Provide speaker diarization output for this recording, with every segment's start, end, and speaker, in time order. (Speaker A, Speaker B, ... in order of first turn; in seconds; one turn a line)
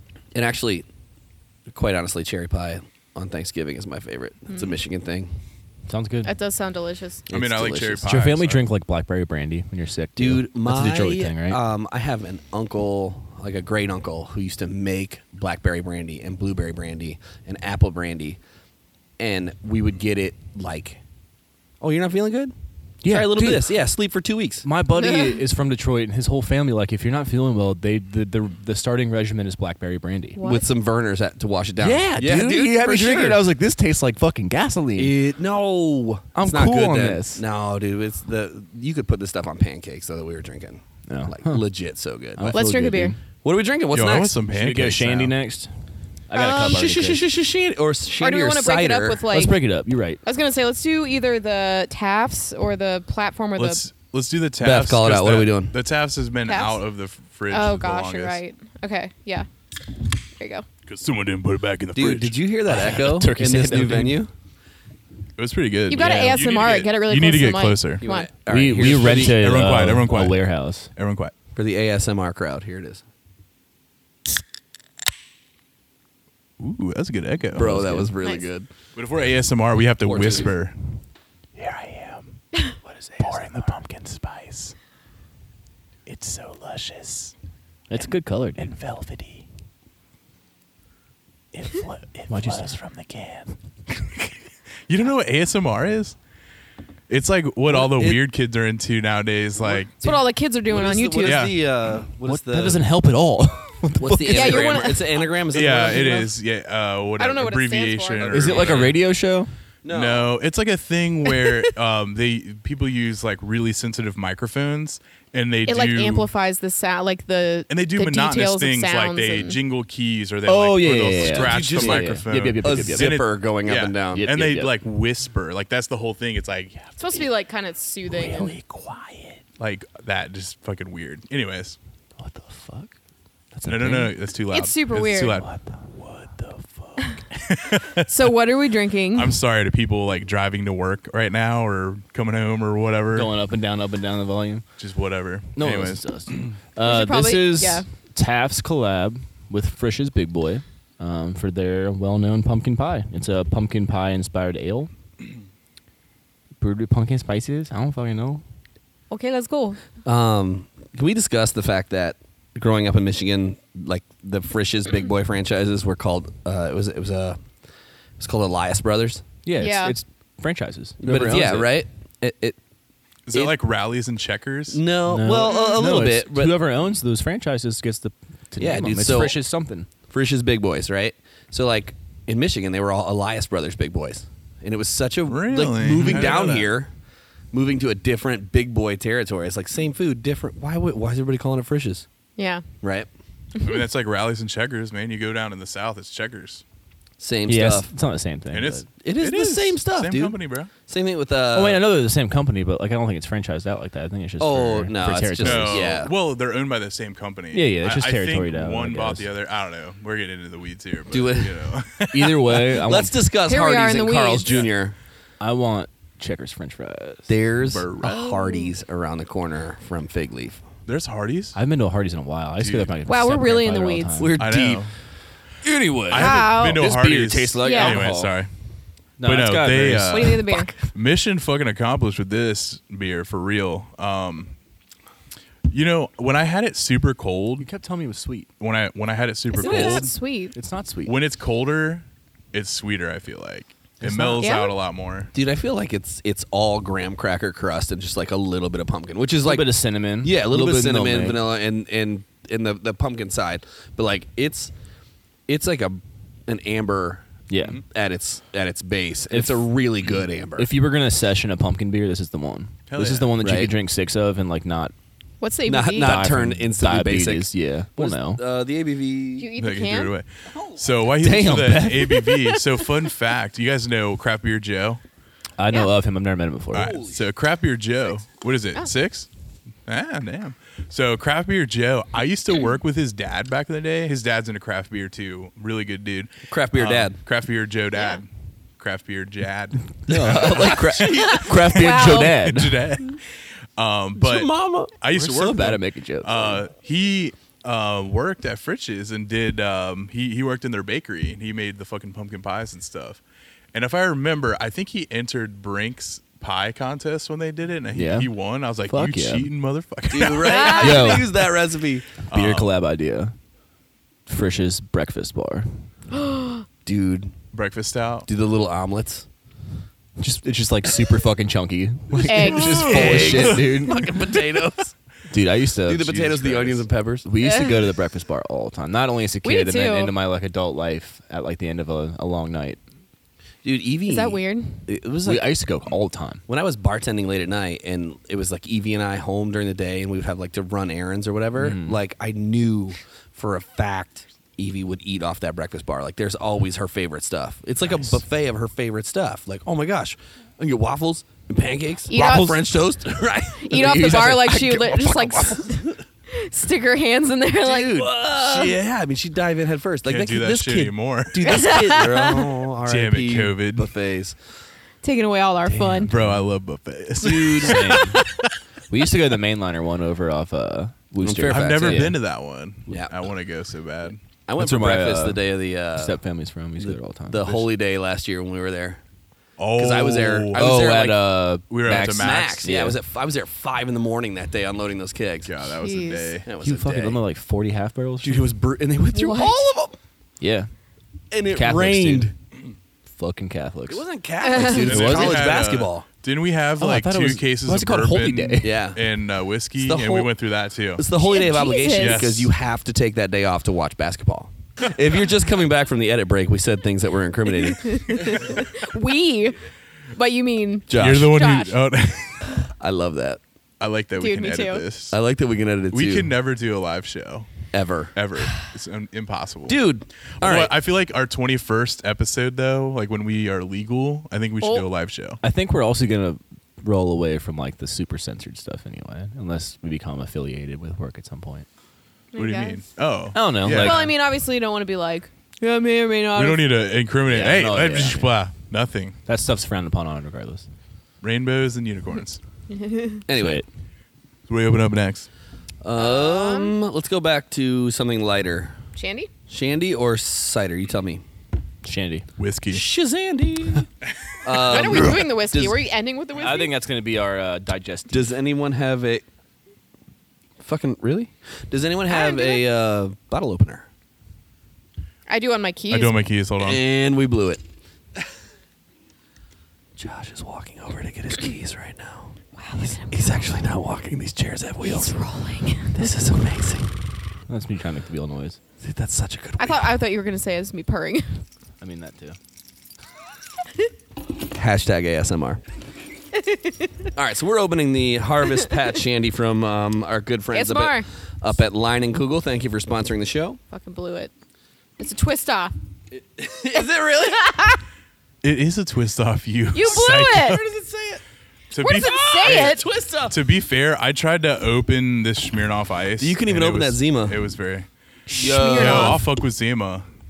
Speaker A: 0.3-0.8
Speaker A: 1.7-5.3
Speaker B: 4.5-4.8
Speaker C: 5.9-6.3
Speaker B: 6.2-7.2
Speaker A: 7.3-8.1
Speaker D: 7.3-8.7
Speaker C: 8.0-11.6
Speaker A: 10.2-18.4
Speaker A: 19.2-21.0
Speaker A: 21.8-22.5
Speaker C: 23.0-23.7
Speaker A: 23.1-24.6
Speaker C: 24.6-30.4
Speaker B: 25.0-25.4
Speaker B: 30.4-30.7
Speaker A: 30.4-33.4
Speaker C: 31.8-35.1
Speaker A: 35.0-42.6
Speaker C: 36.3-37.4
Speaker C: 41.1-41.6
Speaker C: 42.4-43.2
Speaker B: 42.5-43.1
Speaker A: 43.4-44.3
Speaker D: 43.9-45.3
Speaker C: 44.5-45.7
Speaker C: 46.3-47.2
Speaker A: 46.3-49.2
Speaker B: 48.2-49.6
Speaker C: 49.3-50.2
Speaker B: 50.2-53.8
Speaker D: 53.6-58.4
Speaker A: 54.6-55.7
Speaker B: 56.5-56.8
Speaker B: 57.5-59.5
Speaker B: 60.4-60.6
Speaker D: 60.8-62.4
Speaker A: 61.9-64.3
Speaker C: 62.7-64.2
Speaker D: 65.4-68.0
Speaker B: 65.9-68.3
Speaker A: 68.0-69.4
Speaker C: 68.5-70.9
Speaker D: 68.8-71.3
Speaker A: 71.5-73.0
Speaker D: 76.6-78.0
Speaker A: 77.5-78.7
Speaker C: 77.7-78.1
Speaker D: 79.0-80.8
Speaker A: 80.0-80.5
Speaker D: 81.5-82.3
Speaker C: 82.9-83.7
Speaker D: 83.2-84.8
Speaker D: 86.0-87.3
Speaker C: 87.9-88.7
Speaker D: 88.6-89.5
Speaker D: 91.5-94.3
Speaker C: 92.3-92.8
Speaker D: 94.9-96.2
Speaker D: 97.1-99.9
Speaker A: 97.7-98.2
Speaker A: 99.6-102.8
Speaker B: 100.0-101.5
Speaker D: 101.2-101.6
Speaker C: 102.2-104.9
Speaker A: 104.0-106.3
Speaker B: 104.2-105.2
Speaker D: 105.5-109.0
Speaker B: 107.2-108.7
Speaker C: 108.3-109.5
Speaker A: 109.8-110.3
Speaker D: 109.9-116.3
Speaker B: 115.7-119.6
Speaker D: 117.7-127.0
Speaker C: 120.5-123.2
Speaker A: 121.2-124.3
Speaker C: 124.1-124.7
Speaker B: 127.0-128.6
Speaker C: 128.1-129.4
Speaker D: 129.6-131.8
Speaker C: 132.2-132.9
Speaker C: 133.5-134.1
Speaker D: 133.7-138.3
Speaker B: 134.5-135.4
Speaker B: 138.0-139.3
Speaker D: 139.1-143.3
Speaker C: 143.1-144.6
Speaker D: 144.8-146.6
Speaker C: 145.6-154.9
Speaker B: 146.8-147.8
Speaker C: 156.6-158.4
Speaker B: 159.1-159.8
Speaker A: 160.0-167.4
Speaker A: 168.2-169.2
Speaker C: 169.4-171.7
Speaker B: 169.6-169.9
Speaker A: 171.0-172.6
Speaker D: 173.3-174.8
Speaker A: 174.7-176.5
Speaker C: 175.1-179.9
Speaker B: 175.5-175.7
Speaker A: 178.6-179.4
Speaker A: 180.1-186.9
Speaker D: 185.2-186.7
Speaker A: 187.5-192.1
Speaker B: 192.4-192.6
Speaker A: 192.8-193.1
Speaker D: 193.6-196.6
Speaker A: 197.2-197.9
Speaker C: 197.5-198.8
Speaker D: 198.5-200.7
Speaker A: 199.0-201.8
Speaker C: 201.5-206.0
Speaker A: 204.4-206.1
Speaker D: 205.4-212.7
Speaker C: 207.5-209.3
Speaker A: 211.1-211.6
Speaker C: 212.1-213.2
Speaker A: 212.8-214.9
Speaker B: 213.4-214.6
Speaker C: 215.4-217.3
Speaker A: 217.3-220.6
Speaker D: 217.6-218.3
Speaker B: 218.0-218.7
Speaker D: 220.9-221.6
Speaker C: 221.5-224.3
Speaker D: 222.6-222.9
Speaker B: 223.1-224.3
Speaker A: 224.2-224.8
Speaker D: 224.3-224.9
Speaker C: 225.6-228.3
Speaker D: 226.1-228.5
Speaker B: 226.1-226.9
Speaker B: 227.6-228.0
Speaker C: 229.2-230.7
Speaker D: 229.2-234.5
Speaker B: 230.1-230.7
Speaker D: 235.7-237.7
Speaker C: 237.6-238.5
Speaker D: 238.6-240.1
Speaker B: 239.5-240.5
Speaker A: 239.7-240.0
Speaker C: 240.5-241.2
Speaker D: 241.1-245.3
Speaker C: 244.0-244.5
Speaker B: 244.4-244.7
Speaker A: 245.3-254.7
Speaker C: 249.4-251.4
Speaker A: 255.5-257.2
Speaker C: 257.5-257.8
Speaker A: 257.8-260.7
Speaker C: 259.3-264.9
Speaker D: 262.9-263.4
Speaker A: 263.4-263.7
Speaker B: 265.4-266.3
Speaker A: 265.6-269.5
Speaker C: 265.9-268.4
Speaker B: 269.4-270.1
Speaker D: 269.6-275.0
Speaker A: 270.5-271.0
Speaker C: 271.2-272.5
Speaker C: 275.6-276.9
Speaker D: 276.7-279.3
Speaker A: 276.7-277.3
Speaker D: 279.9-293.2
Speaker A: 286.5-287.2
Speaker C: 290.1-292.9
Speaker A: 290.1-291.7
Speaker B: 291.3-292.4
Speaker D: 293.8-303.2
Speaker A: 294.1-295.8
Speaker C: 295.3-296.6
Speaker D: 303.7-310.7
Speaker C: 307.9-308.3
Speaker C: 308.9-309.5
Speaker A: 310.1-312.1
Speaker B: 310.4-311.2
Speaker C: 310.7-311.3
Speaker D: 312.3-312.7
Speaker C: 312.3-313.3
Speaker C: 314.3-315.7
Speaker B: 316.1-316.6
Speaker A: 316.8-317.3
Speaker D: 317.5-318.3
Speaker A: 318.3-319.2
Speaker C: 320.2-324.1
Speaker A: 322.1-324.9
Speaker B: 322.2-323.5
Speaker D: 322.7-323.4
Speaker C: 325.3-326.3
Speaker A: 325.9-327.3
Speaker D: 326.1-326.8
Speaker C: 327.2-332.8
Speaker B: 327.4-327.8
Speaker B: 329.4-330.1
Speaker A: 333.6-335.5
Speaker B: 334.1-334.8
Speaker C: 335.2-336.4
Speaker A: 336.5-355.9
Speaker C: 341.6-342.0
Speaker B: 352.1-352.7
Speaker B: 353.6-358.7
Speaker A: 357.6-364.4
Speaker D: 360.0-361.7
Speaker B: 361.4-362.5
Speaker D: 362.9-363.9
Speaker B: 365.0-366.1
Speaker A: 365.7-366.1
Speaker D: 366.0-368.4
Speaker A: 367.2-368.0
Speaker C: 367.6-368.2
Speaker C: 368.9-372.2
Speaker A: 371.2-372.1
Speaker D: 371.5-374.2
Speaker A: 372.9-373.1
Speaker A: 374.4-376.2
Speaker C: 374.6-375.4
Speaker C: 375.9-377.5
Speaker A: 376.8-379.0
Speaker D: 379.6-380.7
Speaker A: 379.8-381.3
Speaker C: 380.5-383.0
Speaker D: 381.7-382.7
Speaker A: 381.9-385.6
Speaker D: 385.4-386.4
Speaker B: 385.8-386.4
Speaker A: 386.4-387.2
Speaker C: 386.6-388.5
Speaker A: 388.2-390.0
Speaker B: 389.1-389.6
Speaker C: 390.4-390.7
Speaker A: 391.3-392.3
Speaker C: 391.5-392.3
Speaker C: 393.1-394.0
Speaker A: 393.9-396.1
Speaker B: 394.4-395.1
Speaker D: 394.8-401.0
Speaker C: 394.8-395.5
Speaker C: 396.8-398.8
Speaker A: 398.6-399.0
Speaker A: 399.8-400.3
Speaker A: 400.9-408.6
Speaker B: 401.1-402.3
Speaker D: 401.9-402.5
Speaker B: 407.6-409.6
Speaker B: 410.1-411.8
Speaker A: 410.9-411.3
Speaker D: 410.9-412.6
Speaker A: 412.8-413.4
Speaker D: 413.8-415.2
Speaker B: 414.2-414.9
Speaker A: 415.1-416.3
Speaker D: 415.9-417.5
Speaker A: 417.7-418.1
Speaker D: 418.1-419.8
Speaker A: 419.7-420.7
Speaker D: 420.4-425.4
Speaker B: 424.6-424.9
Speaker C: 425.4-431.6
Speaker B: 432.3-432.8
Speaker D: 432.4-434.1
Speaker C: 433.3-434.1
Speaker B: 433.7-436.7
Speaker D: 436.3-439.2
Speaker C: 437.3-438.4
Speaker C: 439.3-440.7
Speaker D: 441.2-442.4
Speaker B: 442.7-443.2
Speaker A: 443.3-443.6
Speaker C: 443.3-443.6
Speaker D: 444.5-445.3
Speaker A: 445.8-448.8
Speaker B: 445.9-446.7
Speaker B: 448.9-449.3
Speaker A: 449.5-451.2
Speaker C: 451.8-452.2
Speaker D: 452.4-452.8
Speaker A: 452.7-453.9
Speaker A: 454.4-455.8
Speaker B: 454.5-456.7
Speaker C: 456.3-458.3
Speaker A: 458.1-459.2
Speaker A: 460.6-463.9
Speaker B: 462.1-462.6
Speaker B: 465.3-466.2
Speaker D: 465.9-466.8
Speaker A: 466.6-467.6
Speaker A: 470.0-475.2
Speaker B: 472.6-473.2
Speaker B: 474.8-476.1
Speaker A: 475.9-476.9
Speaker C: 477.5-478.6
Speaker A: 478.8-479.9
Speaker B: 479.6-481.4
Speaker C: 481.8-482.4
Speaker A: 484.5-485.6
Speaker B: 486.4-486.9
Speaker A: 487.1-493.6
Speaker B: 490.5-491.1
Speaker B: 493.7-494.3
Speaker B: 495.0-495.7
Speaker A: 496.1-497.6
Speaker B: 496.8-497.8
Speaker D: 498.4-500.6
Speaker B: 499.7-500.6
Speaker A: 500.5-501.2
Speaker D: 501.7-507.9
Speaker B: 501.8-502.8
Speaker A: 501.9-503.4
Speaker A: 506.2-507.4
Speaker B: 508.3-509.2
Speaker A: 508.3-509.2
Speaker D: 508.7-510.1